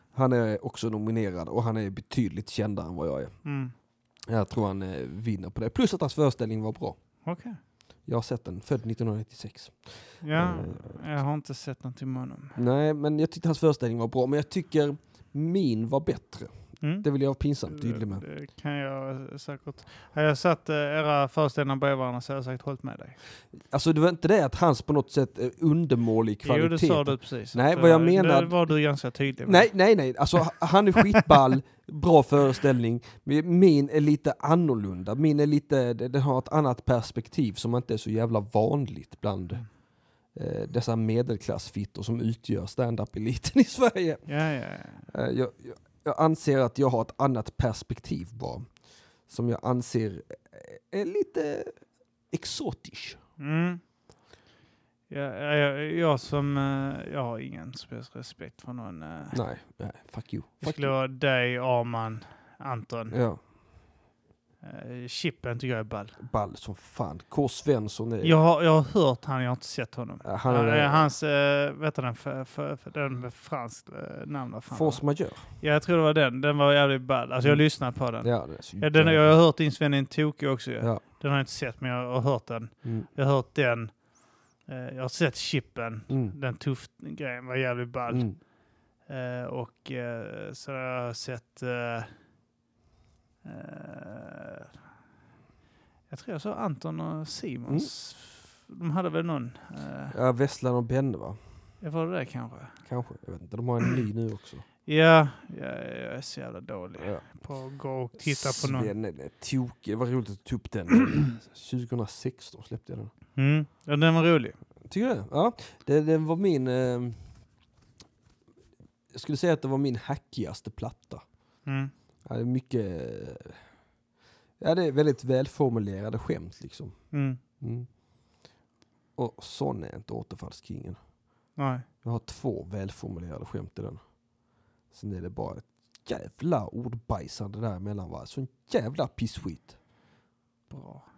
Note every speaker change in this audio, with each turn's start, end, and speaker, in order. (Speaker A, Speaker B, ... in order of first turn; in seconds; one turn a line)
Speaker A: 0.1-3.3
Speaker B: 3.4-3.7
Speaker A: 4.3-7.0
Speaker B: 7.2-7.6
Speaker A: 8.1-9.8
Speaker B: 10.2-12.6
Speaker A: 10.3-11.0
Speaker A: 12.5-16.5
Speaker A: 17.0-18.2
Speaker B: 17.7-23.2
Speaker A: 23.7-28.5
Speaker B: 26.4-29.7
Speaker A: 29.4-39.6
Speaker A: 40.3-44.2
Speaker B: 44.3-45.0
Speaker A: 45.1-48.6
Speaker A: 49.3-51.7
Speaker A: 52.3-53.2
Speaker B: 53.4-53.8
Speaker B: 55.1-59.4
Speaker A: 59.3-60.9
Speaker B: 60.6-63.1
Speaker A: 63.1-63.4
Speaker B: 64.6-66.2
Speaker A: 66.2-68.3
Speaker B: 68.2-75.0
Speaker A: 70.2-71.1
Speaker A: 74.7-75.4
Speaker B: 75.6-83.9
Speaker A: 78.2-79.3
Speaker B: 84.7-88.3
Speaker A: 86.1-86.3
Speaker A: 88.1-88.4
Speaker B: 89.1-92.1
Speaker B: 93.4-94.7
Speaker B: 96.1-100.1
Speaker A: 100.1-101.4
Speaker B: 101.8-102.7
Speaker A: 102.9-104.6
Speaker B: 104.8-108.9
Speaker A: 107.0-107.2
Speaker A: 108.2-113.1
Speaker B: 113.3-114.5
Speaker A: 114.9-117.2
Speaker A: 119.1-121.2
Speaker B: 121.7-121.9
Speaker A: 122.2-123.5
Speaker A: 124.6-126.9
Speaker B: 127.1-127.4
Speaker A: 127.6-127.9
Speaker A: 129.2-131.0
Speaker B: 131.6-131.8
Speaker A: 132.0-134.0
Speaker A: 134.9-139.7
Speaker B: 140.7-141.0